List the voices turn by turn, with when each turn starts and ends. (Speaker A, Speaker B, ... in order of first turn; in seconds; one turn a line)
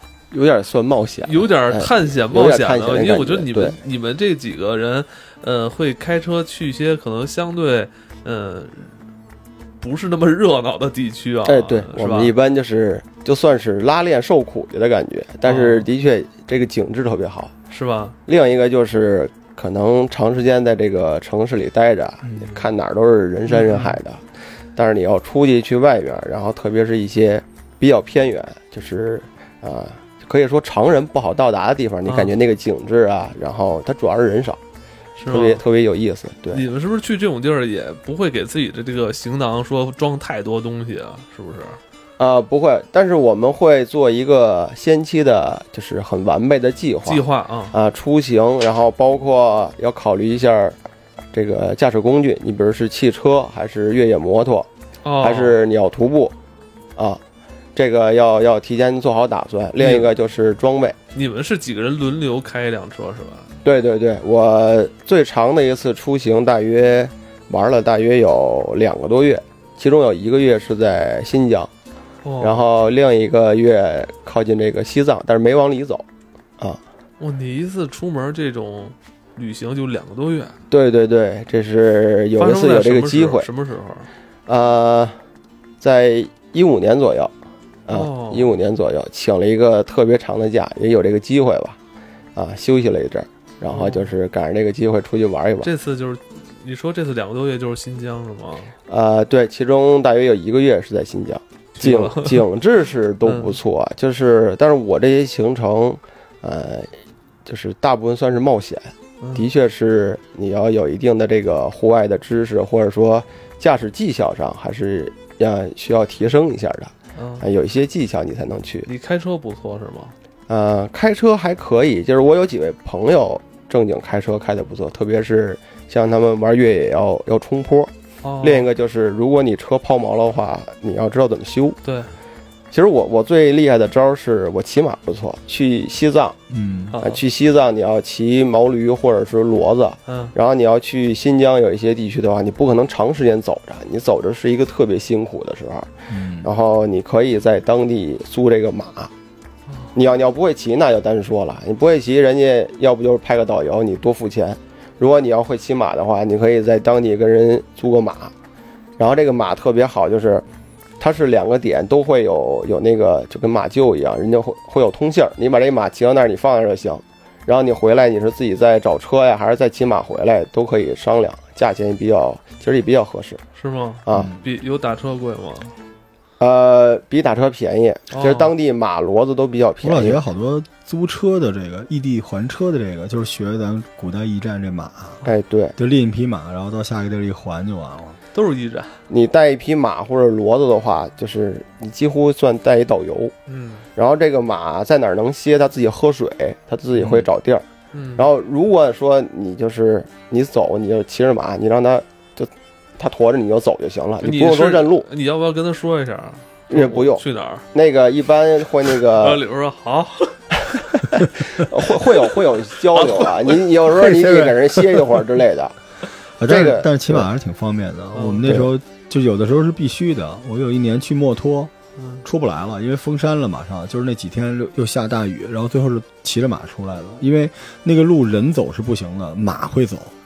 Speaker A: 0.3-3.8
Speaker B: 1.2-9.0
Speaker B: 9.8-12.3
Speaker A: 11.4-17.5
Speaker B: 15.4-15.9
Speaker B: 17.7-18.2
Speaker A: 18.3-24.2
Speaker A: 24.8-34.6
Speaker B: 32.1-32.3
Speaker B: 35.2-35.6
Speaker A: 35.3-36.6
Speaker B: 36.5-41.8
Speaker A: 42.2-50.8
Speaker B: 47.1-47.7
Speaker A: 51.3-54.7
Speaker B: 55.0-55.6
Speaker A: 55.2-56.3
Speaker A: 57.8-61.0
Speaker B: 59.8-60.1
Speaker B: 61.1-63.5
Speaker A: 63.6-71.7
Speaker B: 72.2-72.6
Speaker A: 72.4-76.0
Speaker B: 77.2-80.6
Speaker A: 80.7-83.5
Speaker B: 82.4-84.1
Speaker A: 84.5-85.2
Speaker A: 85.8-87.3
Speaker A: 87.9-91.8
Speaker B: 87.9-88.5
Speaker A: 92.3-95.7
Speaker B: 93.7-94.1
Speaker B: 95.6-98.7
Speaker A: 98.9-106.9
Speaker B: 101.8-102.5
Speaker B: 103.2-103.6
Speaker A: 107.5-118.9
Speaker B: 109.2-109.5
Speaker B: 117.2-117.5
Speaker B: 118.9-120.1
Speaker A: 120.5-131.8
Speaker B: 128.2-128.7
Speaker B: 131.8-132.1
Speaker A: 132.7-136.4
Speaker C: 136.5-137.0
Speaker B: 136.9-137.2
Speaker A: 137.0-145.9
Speaker B: 140.1-140.3
Speaker C: 146.1-146.5
Speaker A: 146.4-149.1
Speaker B: 149.7-149.9
Speaker A: 149.9-158.3
Speaker A: 159.0-160.4
Speaker A: 161.0-173.4
Speaker B: 173.6-175.7
Speaker A: 174.1-174.3
Speaker C: 174.1-174.4
Speaker A: 176.4-180.2
Speaker B: 178.1-178.5
Speaker C: 179.8-185.2
Speaker A: 185.2-185.8
Speaker C: 185.8-188.2
Speaker B: 188.3-189.0
Speaker A: 189.1-193.3
Speaker B: 193.5-193.9
Speaker A: 194.0-205.1
Speaker C: 197.0-197.3
Speaker B: 197.9-198.3
Speaker B: 204.2-207.7
Speaker A: 206.7-209.4
Speaker B: 208.8-210.5
Speaker A: 211.4-215.8
Speaker B: 212.9-213.7
Speaker C: 214.1-215.0
Speaker C: 216.4-221.7
Speaker A: 216.5-217.3
Speaker B: 218.1-218.5
Speaker B: 222.0-222.2
Speaker C: 222.2-230.1